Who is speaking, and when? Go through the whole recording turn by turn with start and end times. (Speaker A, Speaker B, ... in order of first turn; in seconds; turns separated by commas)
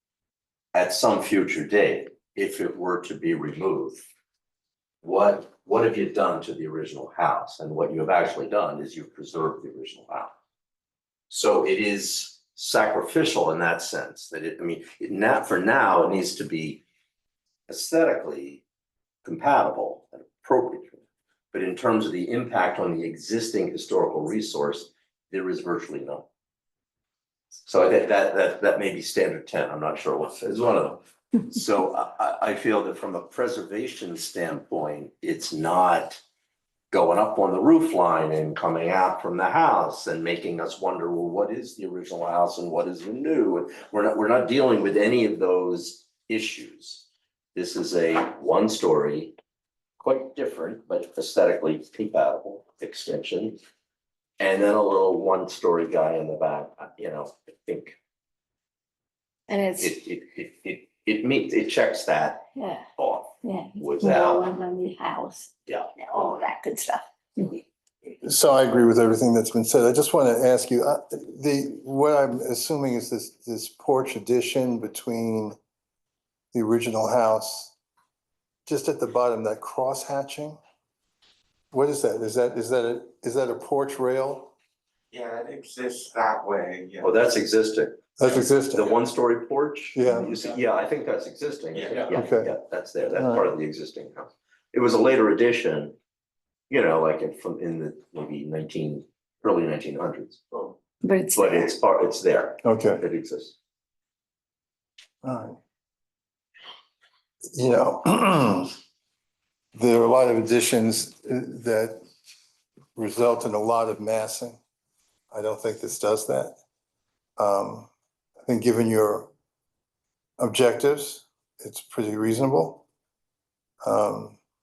Speaker A: 0.7-4.0, Speaker A: 5.0-10.3, Speaker A: 11.3-16.8, Speaker A: 17.7-18.6, Speaker A: 19.2-26.2, Speaker A: 27.7-36.2, Speaker A: 36.9-49.4, Speaker A: 50.0-53.6, Speaker A: 54.4-58.0, Speaker B: 59.5-59.8, Speaker A: 59.8-64.5, Speaker B: 63.4-65.5, Speaker B: 66.0-67.0, Speaker C: 68.2-75.6, Speaker C: 76.5-77.7, Speaker C: 78.7-80.6, Speaker C: 81.7-84.5, Speaker D: 85.1-87.3, Speaker A: 87.0-96.0, Speaker C: 88.2-88.9, Speaker C: 89.9-90.3, Speaker D: 91.7-92.1, Speaker C: 92.1-92.5, Speaker C: 93.1-93.5, Speaker A: 96.7-100.4, Speaker B: 101.0-101.5, Speaker A: 101.3-103.5, Speaker C: 102.6-103.0, Speaker C: 105.2-105.5, Speaker C: 107.5-108.7, Speaker C: 109.7-112.0, Speaker C: 113.0-114.6, Speaker C: 115.3-116.5, Speaker C: 117.4-117.9, Speaker C: 118.4-119.3, Speaker C: 120.4-122.8, Speaker C: 123.8-124.4